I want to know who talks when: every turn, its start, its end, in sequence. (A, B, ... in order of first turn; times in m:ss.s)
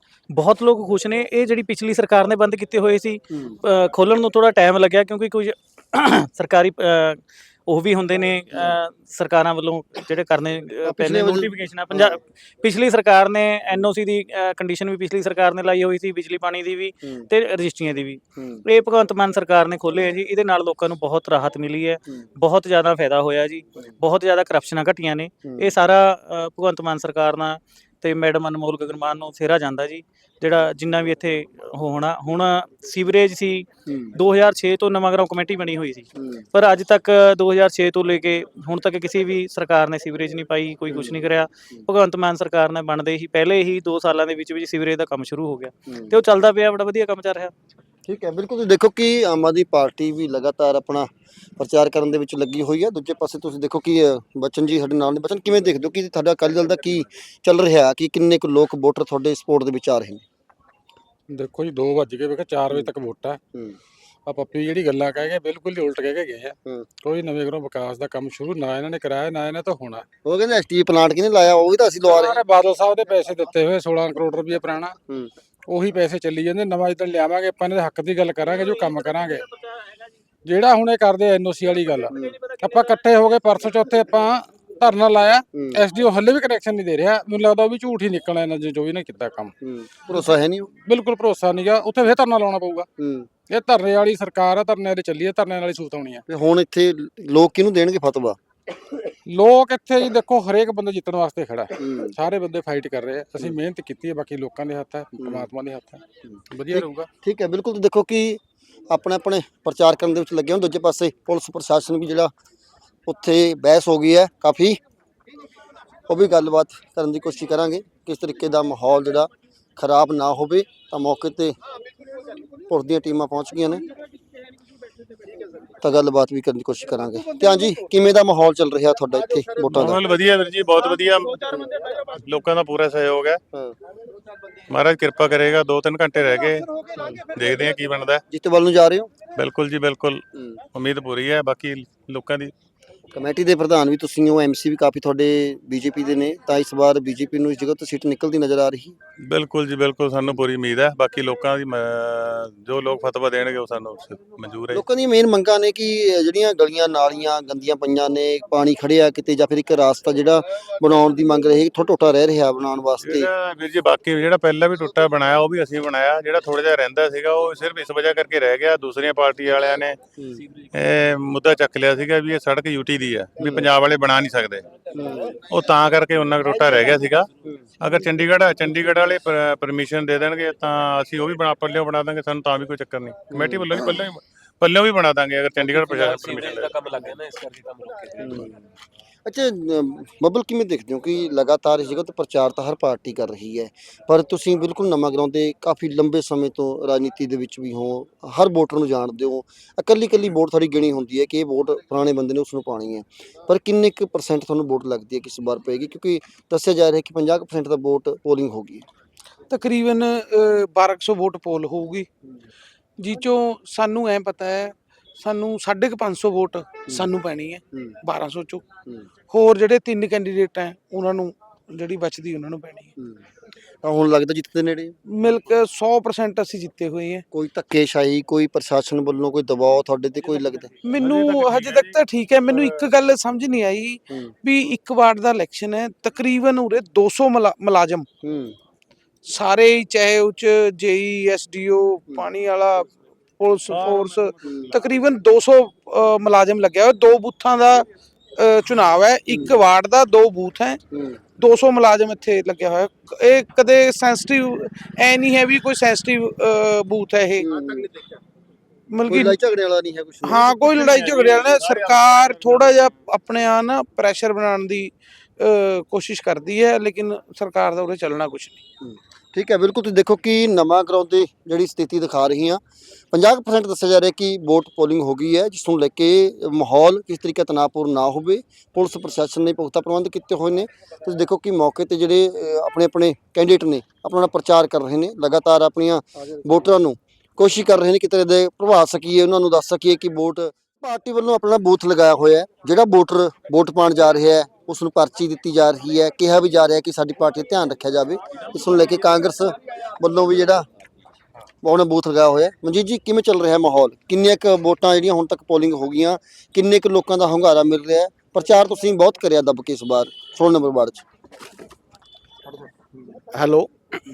0:00.3-0:47.5 A
0:10.8-0:12.2 B
0:18.4-0:18.6 B
0:25.4-0:25.7 B
0:33.9-0:34.1 B
0:36.2-0:36.4 B
0:40.9-0:41.2 B
0:45.9-0:46.1 B
0:48.1-1:00.2 B
1:01.3-1:03.4 C
1:04.2-1:10.0 C
1:10.2-1:12.4 B
1:12.0-1:15.0 C
1:15.7-1:19.4 C
1:20.4-1:29.5 C
1:22.1-1:22.4 B
1:25.5-1:25.8 B
1:29.6-1:30.7 B
1:30.1-1:32.9 C
1:33.0-1:33.3 B
1:33.5-1:36.2 C
1:36.3-1:38.4 B
1:39.2-1:47.1 C
1:41.8-1:42.1 B
1:45.2-1:45.5 B
1:46.7-1:52.3 B
1:53.0-1:54.8 B
1:56.1-2:01.6 B
2:02.7-2:03.8 B
2:05.8-2:10.0 B
2:09.7-2:11.4 D
2:12.1-2:13.4 D
2:14.7-2:16.6 D
2:17.0-2:17.2 B
2:17.3-2:18.2 D
2:18.3-2:19.1 B
2:19.4-2:20.2 D
2:20.7-2:22.5 D
2:23.1-2:29.0 B
2:29.3-2:34.8 D
2:34.7-2:43.3 B
2:43.0-2:50.0 D
2:50.7-2:54.6 D
2:53.4-2:53.7 B
2:54.9-2:55.4 B
2:55.5-2:57.3 D
2:57.8-3:06.8 D
3:03.3-3:04.0 B
3:08.2-3:08.5 B
3:09.2-3:28.8 B
3:29.5-3:32.1 E
3:33.0-3:38.6 E
3:39.3-3:42.9 E
3:43.8-3:45.0 B
3:45.1-3:47.2 E
3:47.3-3:50.7 B
3:50.8-3:58.1 E
3:51.0-3:52.0 D
3:58.2-3:58.6 B
3:59.2-4:07.8 E
4:08.4-4:10.8 E
4:09.3-4:09.6 B
4:10.9-4:11.2 B
4:11.4-4:17.5 E
4:17.4-4:17.9 B
4:18.9-4:19.4 E
4:19.0-4:21.1 B
4:20.2-4:28.6 E
4:28.8-4:32.6 B
4:33.1-5:00.6 B
5:01.6-5:11.0 B
5:12.5-5:12.9 B